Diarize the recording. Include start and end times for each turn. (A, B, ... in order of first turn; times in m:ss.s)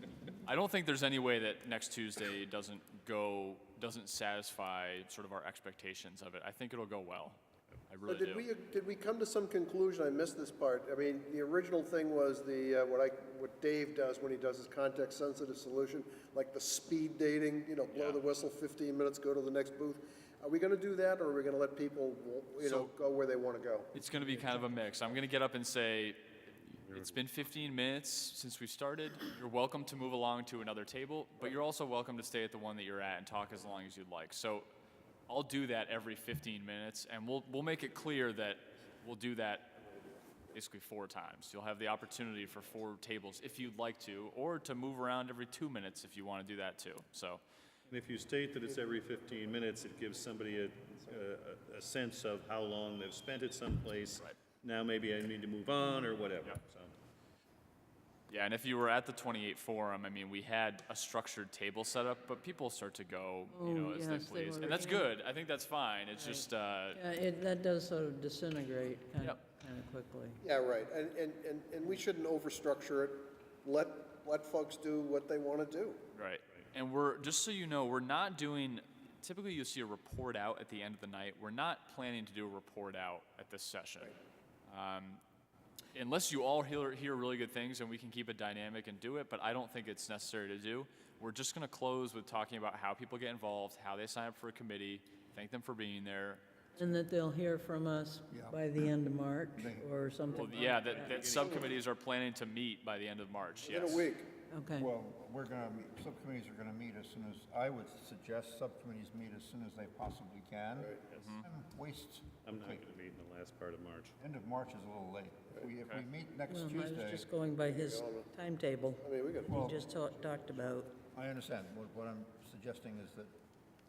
0:00.4-0:08.5 A
0:08.1-0:23.9 B
0:17.9-0:18.2 A
0:22.6-0:22.9 A
0:23.9-0:34.7 A
0:26.8-0:27.2 C
0:35.3-0:39.9 A
0:40.5-0:47.4 A
0:47.9-0:57.0 C
0:58.3-1:07.0 A
1:03.5-1:05.1 D
1:06.1-1:10.4 D
1:10.4-1:16.0 B
1:16.1-1:25.2 A
1:25.9-1:36.4 A
1:36.8-1:41.6 D
1:38.3-1:38.8 E
1:39.6-1:39.9 E
1:40.4-1:44.1 A
1:40.6-1:41.8 C
1:43.6-1:44.4 B
1:44.5-1:44.9 D
1:44.7-1:52.9 E
1:50.8-1:51.0 B
1:51.1-1:51.4 C
1:51.2-1:51.5 A
1:52.4-1:54.2 C
1:54.2-1:57.3 E
1:56.5-2:00.9 D
1:57.6-1:58.3 B
1:59.0-1:59.7 B
1:59.5-1:59.9 E
2:01.1-2:03.4 E